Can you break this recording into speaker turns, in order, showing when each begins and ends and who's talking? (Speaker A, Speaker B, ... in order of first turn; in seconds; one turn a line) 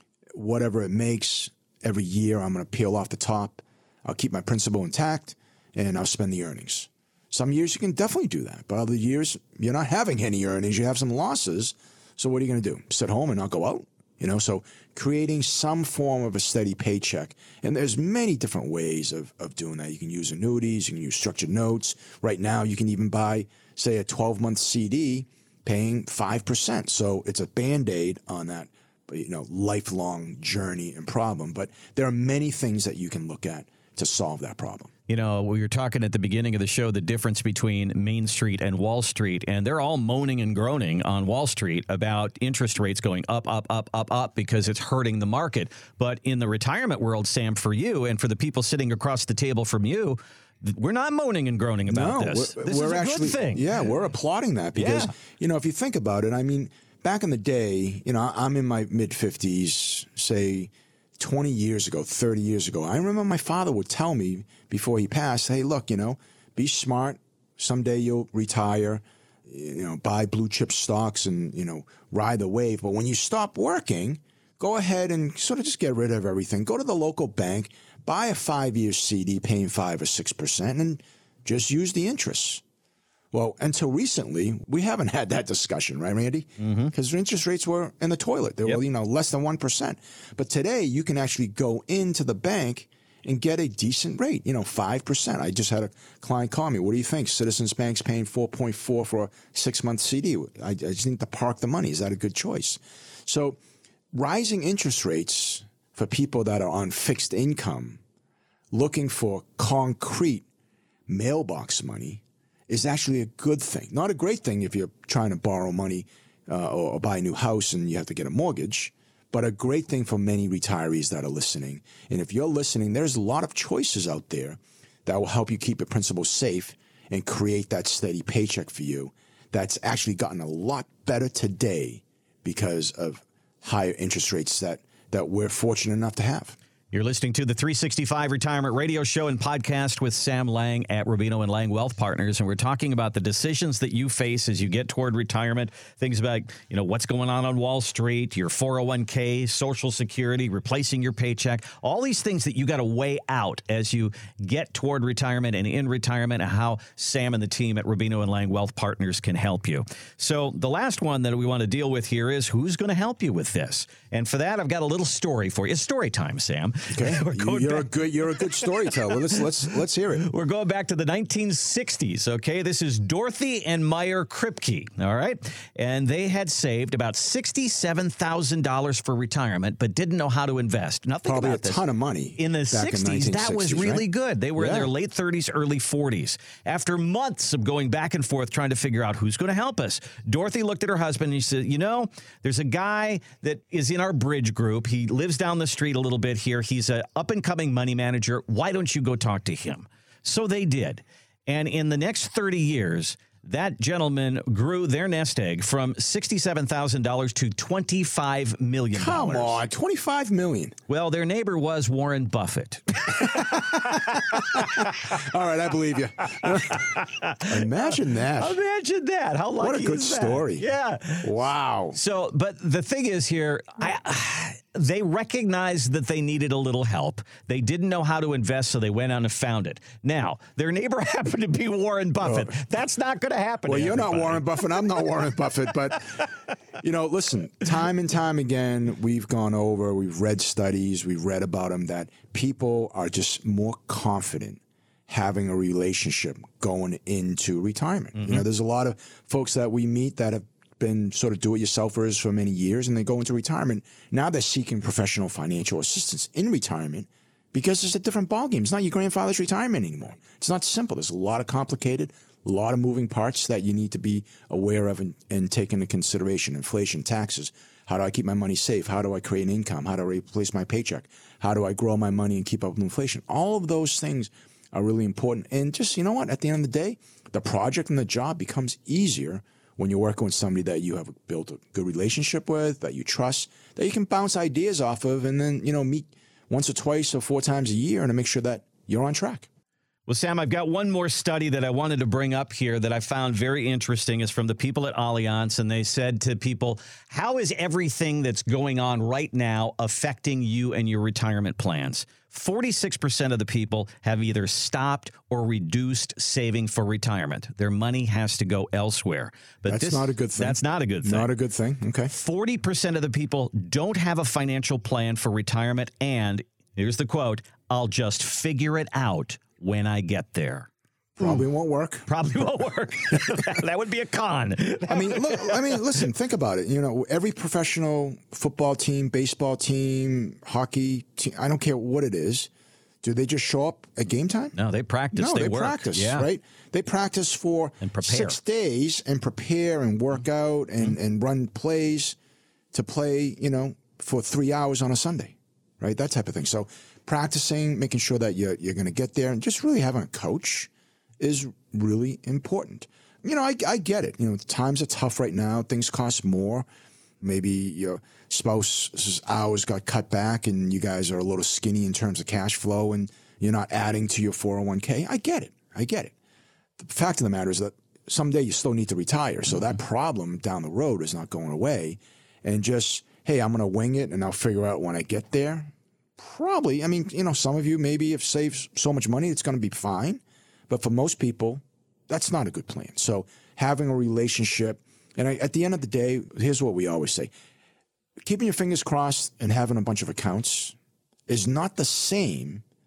Speaker A: 0.3-34.9
Speaker B: 35.1-53.6
Speaker A: 51.9-82.6
Speaker B: 54.8-55.1
Speaker A: 83.3-103.6
Speaker B: 86.6-86.9
Speaker A: 104.1-108.0
Speaker A: 108.7-110.4
Speaker A: 111.1-136.6
Speaker B: 136.9-168.7
Speaker A: 166.9-170.2
Speaker B: 170.2-181.8
Speaker A: 181.2-184.0
Speaker B: 182.4-209.6
Speaker A: 184.6-184.9
Speaker A: 208.9-210.7
Speaker B: 210.9-215.1
Speaker A: 213.3-216.8
Speaker B: 216.7-217.5
Speaker A: 217.4-218.6
Speaker B: 218.4-221.3
Speaker A: 219.6-220.7
Speaker A: 221.2-222.0
Speaker B: 221.9-234.4
Speaker A: 232.2-232.5
Speaker A: 233.7-236.2
Speaker A: 236.8-289.5
Speaker B: 248.2-248.4
Speaker B: 290.1-311.3
Speaker A: 309.7-312.1
Speaker B: 312.1-321.4
Speaker A: 321.2-322.1
Speaker B: 322.1-325.7
Speaker A: 324.9-332.5
Speaker A: 333.0-334.5
Speaker B: 334.6-336.3
Speaker A: 335.1-342.1
Speaker B: 337.8-338.4
Speaker A: 342.7-356.7
Speaker A: 357.2-366.1
Speaker A: 366.8-387.3
Speaker A: 388.2-390.7
Speaker A: 391.3-392.6